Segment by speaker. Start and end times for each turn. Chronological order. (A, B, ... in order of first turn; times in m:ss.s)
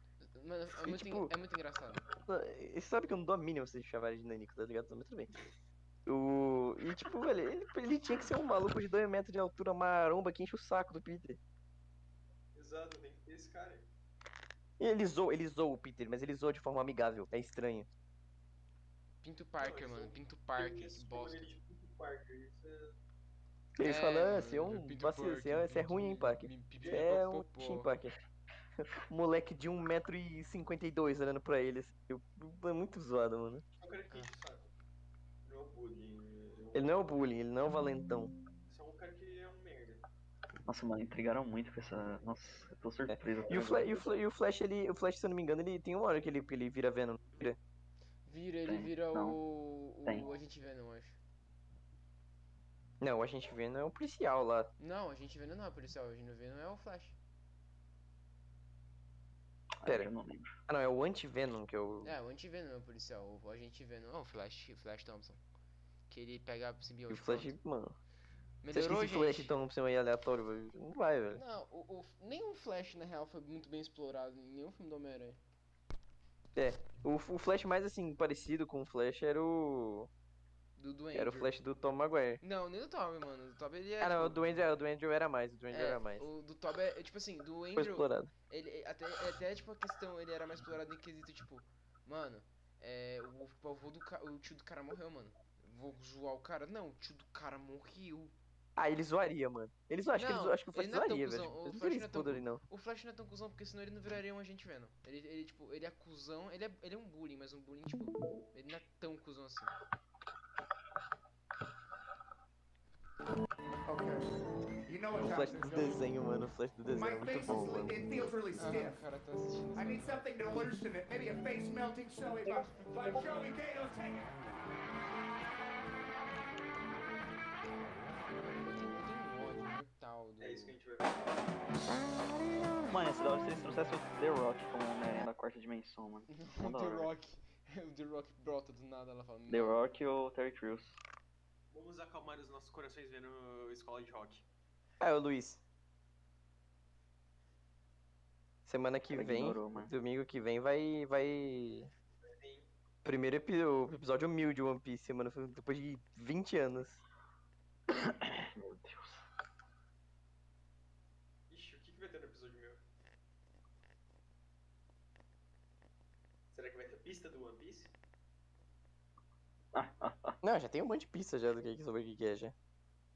0:00.2-0:02.1 A
0:00.7-0:01.3 B
0:02.2-0:05.4 B
0:06.0-0:11.4 B
0:12.5-0:13.9 C
0:14.8-0:17.9 B
0:19.2-0:21.5 A
0:19.6-0:22.9 C
0:23.8-0:28.1 B
0:23.8-0:27.9 A
0:26.8-0:27.1 C
0:28.8-0:33.6 B
0:33.8-0:34.7 C
0:35.4-0:37.0 C
0:36.7-0:38.3 B
0:38.7-0:40.0 C
0:40.7-0:44.1 D
0:43.1-0:47.6 B
0:48.2-0:51.2 A
0:48.6-0:49.4 D
0:53.0-0:54.7 B
0:54.8-0:57.2 A
0:59.8-1:00.5 D
0:59.8-1:00.1 B
1:00.7-1:02.2 B
1:02.0-1:05.4 A
1:06.1-1:07.5 A
1:07.1-1:08.0 B
1:08.6-1:09.5 A
1:08.7-1:11.4 B
1:11.3-1:15.4 A
1:16.5-1:20.1 B
1:20.8-1:21.5 A
1:21.1-1:22.4 B
1:22.4-1:24.5 A
1:24.0-1:26.3 B
1:25.7-1:38.3 A
1:27.7-1:28.3 B
1:38.8-1:42.6 B
1:40.2-1:49.7 A
1:53.8-1:54.3 E
1:54.9-1:56.0 E
1:55.2-1:58.3 B
1:56.9-1:59.0 E
1:58.6-2:00.5 A
1:59.7-2:04.3 E
2:02.5-2:02.9 D
2:08.4-2:10.8 A
2:10.4-2:11.5 C
2:12.8-2:17.1 D
2:16.3-2:19.8 A
2:19.5-2:21.0 D
2:21.7-2:24.4 C
2:25.0-2:25.6 B
2:28.6-2:31.9 B
2:29.1-2:29.9 D
2:32.2-2:32.7 C
2:33.0-2:37.0 B
2:37.9-2:39.2 D
2:41.5-2:42.8 C
2:46.5-2:47.9 C
2:49.7-2:50.4 D
2:50.4-2:52.5 B